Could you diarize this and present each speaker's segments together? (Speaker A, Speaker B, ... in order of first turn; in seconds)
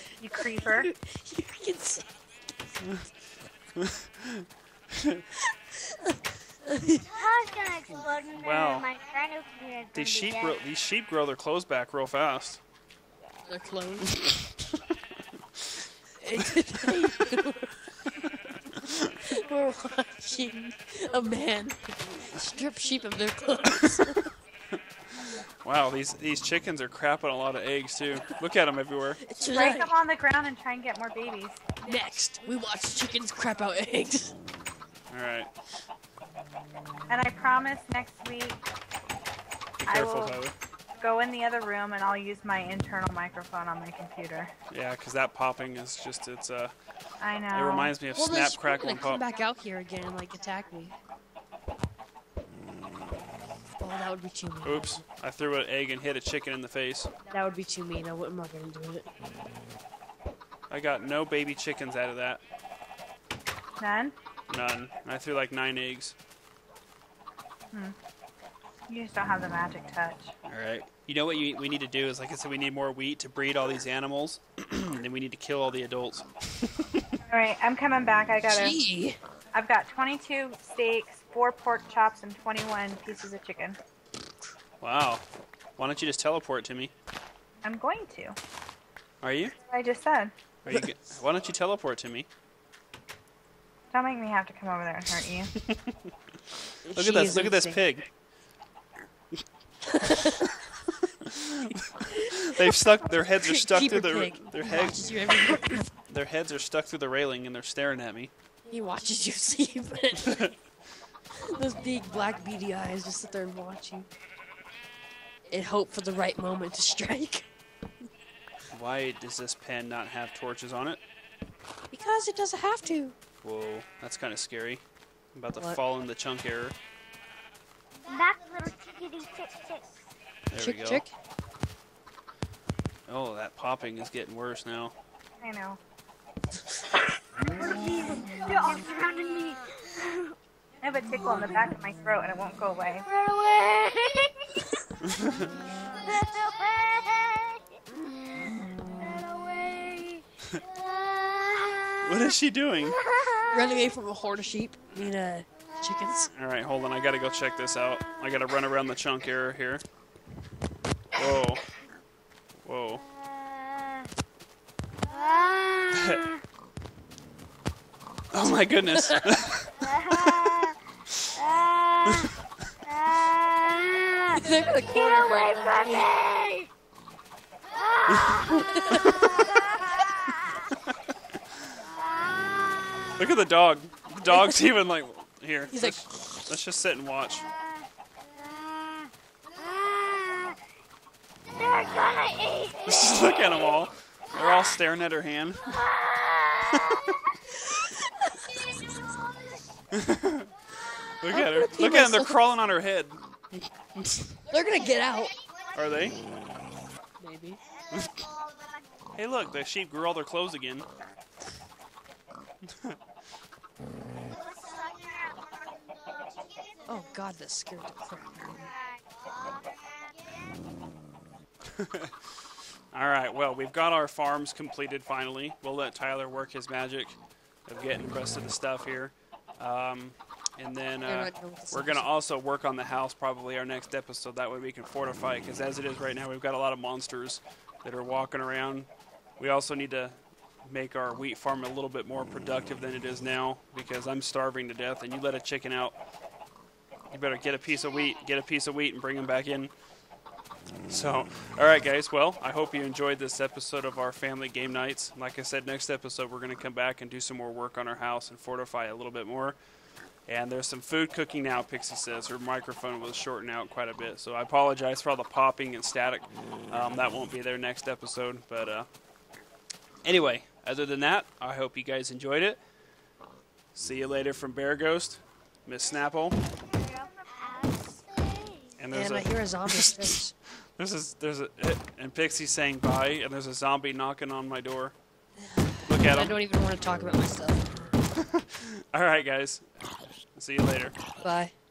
Speaker A: 0.2-0.9, 29.5-31.6, 37.1-38.6, 39.9-40.4, 41.0-44.5, 47.2-48.0, 63.8-64.1, 68.9-70.3, 77.3-78.8, 79.5-83.8, 87.6-88.4, 89.7-90.3, 93.9-95.5, 135.4-135.8, 140.8-143.1
Speaker B: 0.5-2.2, 5.4-7.1, 13.5-14.1, 16.1-17.8, 19.2-24.3, 29.2-29.9, 31.8-34.3, 48.1-51.0, 53.8-55.0, 57.3-59.1, 78.5-79.2, 96.9-97.8, 99.9-100.5, 102.2-102.8, 103.4-105.9, 108.7-110.5, 111.3-114.1, 115.5-117.5, 121.9-123.2, 130.6-131.1, 153.5-156.3, 168.4-169.4, 174.3-176.1, 178.7-179.2, 184.3-184.6, 185.7-186.5, 197.6-198.3, 201.3-202.4, 204.5-205.3, 207.2-207.6, 216.9-218.7, 231.1-232.1, 278.9-280.3, 285.4-287.8, 291.2-291.5
Speaker C: 3.8-5.2, 8.4-8.9, 9.9-12.6, 18.2-19.1, 25.6-29.2, 35.1-35.5, 39.8-40.5, 44.7-46.7, 47.5-49.2, 54.6-57.1, 60.7-62.4, 64.5-66.1, 70.5-77.0, 84.8-85.2, 85.8-86.9, 89.2-89.6, 90.6-92.3, 95.6-96.0, 96.9-98.1, 100.4-105.2, 106.1-108.3, 118.7-121.0, 123.4-126.8, 130.5-131.1, 133.1-134.9, 145.0-145.5, 152.0-153.0, 156.3-159.8, 161.1-161.6, 162.6-163.0, 165.9-166.2, 168.3-169.8, 178.1-179.3, 183.2-187.5, 192.9-195.8, 199.9-200.5, 201.2-203.2, 204.0-204.4, 205.8-206.2, 209.2-210.9, 212.7-213.0, 221.7-222.2, 222.9-246.0, 247.1-249.7, 250.9-259.6, 260.3-268.9, 270.1-272.6, 273.7-276.4, 278.8-284.9, 285.8-286.4, 288.1-291.0
Speaker D: 7.1-10.6, 128.1-129.9, 137.6-140.3, 143.1-144.9, 145.9-152.0, 153.0-153.6, 163.3-164.1, 165.0-166.4, 169.8-170.8, 171.3-172.3, 172.8-176.7, 177.7-180.6, 181.9-183.1, 188.4-190.6, 191.5-193.2, 195.7-197.0, 214.4-215.8, 218.6-219.7, 276.8-278.8